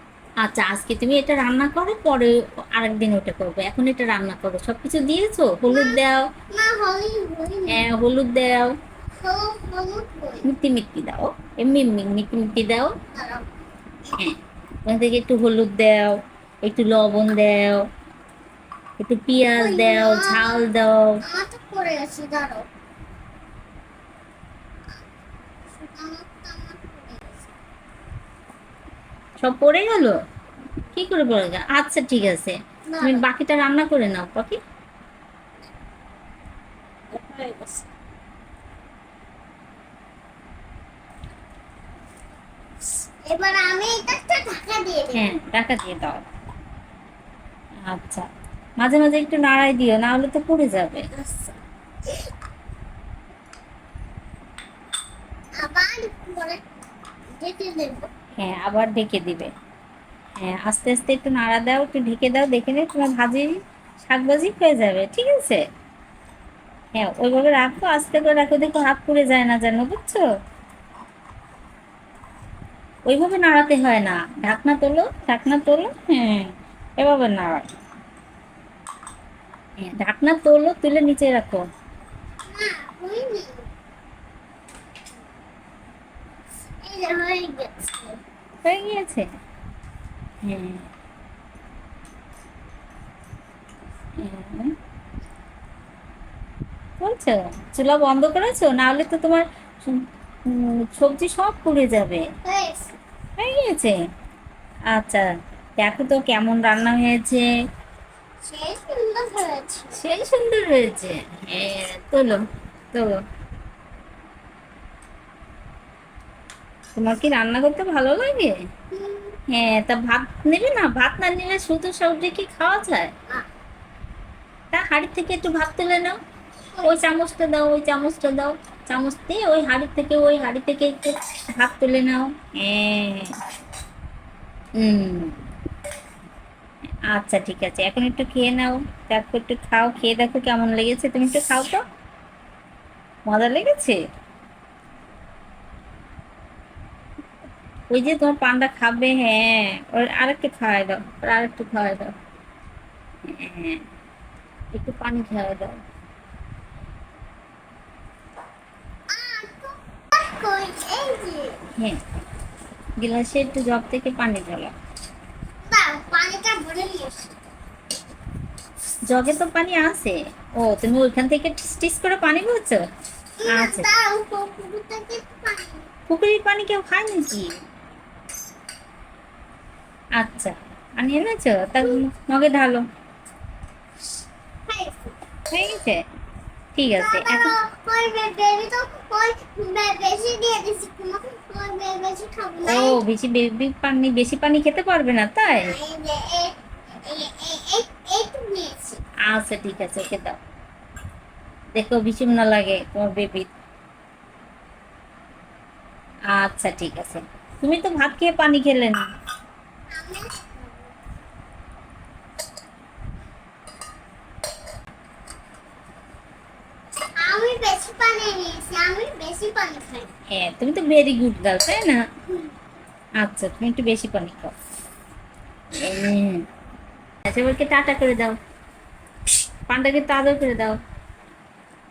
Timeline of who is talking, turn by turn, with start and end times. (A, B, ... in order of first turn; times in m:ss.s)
0:00.4-0:06.3 A
0:05.7-0:06.0 B
0:06.5-0:07.8 B
0:07.7-0:08.8 A
0:09.2-0:10.5 B
0:10.4-0:12.9 A
0:13.1-0:13.5 B
0:14.2-0:17.8 A
0:19.0-0:21.2 A
0:19.5-0:20.7 B
0:21.3-0:22.7 B
0:26.0-0:27.5 B
0:29.4-0:30.2 A
0:30.9-0:34.6 A
0:32.9-0:33.3 B
0:37.3-0:37.6 B
0:43.3-0:45.3 B
0:45.2-0:46.2 A
0:47.9-0:48.3 A
0:48.8-0:51.1 A
0:51.2-0:51.5 B
0:55.6-0:56.6 B
0:57.4-0:58.1 B
0:58.4-0:59.5 A
1:00.4-1:05.6 A
1:06.9-1:10.2 A
1:13.0-1:17.7 A
1:19.8-1:21.6 A
1:22.5-1:23.7 B
1:26.8-1:28.2 B
1:28.6-1:29.3 A
1:30.4-1:30.9 A
1:34.2-1:34.7 A
1:37.0-1:42.3 A
1:42.4-1:42.9 B
1:43.4-1:44.0 A
1:44.9-1:45.3 A
1:45.8-1:47.5 A
1:48.4-1:50.0 B
1:49.9-1:52.4 A
1:52.9-1:53.2 A
1:57.0-1:58.6 A
1:58.9-1:59.4 B
1:59.5-2:03.1 A
2:04.7-2:06.2 A
2:06.8-2:07.0 B
2:06.8-2:13.3 A
2:14.8-2:15.4 A
2:17.1-2:21.8 A
2:23.3-2:24.0 A
2:27.9-2:32.1 A
2:33.3-2:33.8 A
2:34.7-2:35.7 A
2:39.1-2:41.6 B
2:43.0-2:44.7 A
2:45.7-2:47.3 B
2:49.1-2:52.8 A
2:53.4-2:55.9 B
2:53.5-2:53.9 A
2:56.1-2:57.5 A
3:00.2-3:02.8 A
3:04.7-3:05.2 B
3:05.5-3:06.0 A
3:06.8-3:07.5 A
3:06.9-3:13.0 B
3:12.6-3:15.8 A
3:15.5-3:19.0 B
3:19.3-3:20.4 A
3:21.7-3:23.5 A
3:26.3-3:29.0 A
3:29.9-3:30.6 B
3:37.2-3:40.1 B
3:40.3-3:42.0 A
3:43.2-3:44.5 A
3:45.8-3:46.4 A
3:47.2-3:48.4 A
3:49.7-3:50.8 A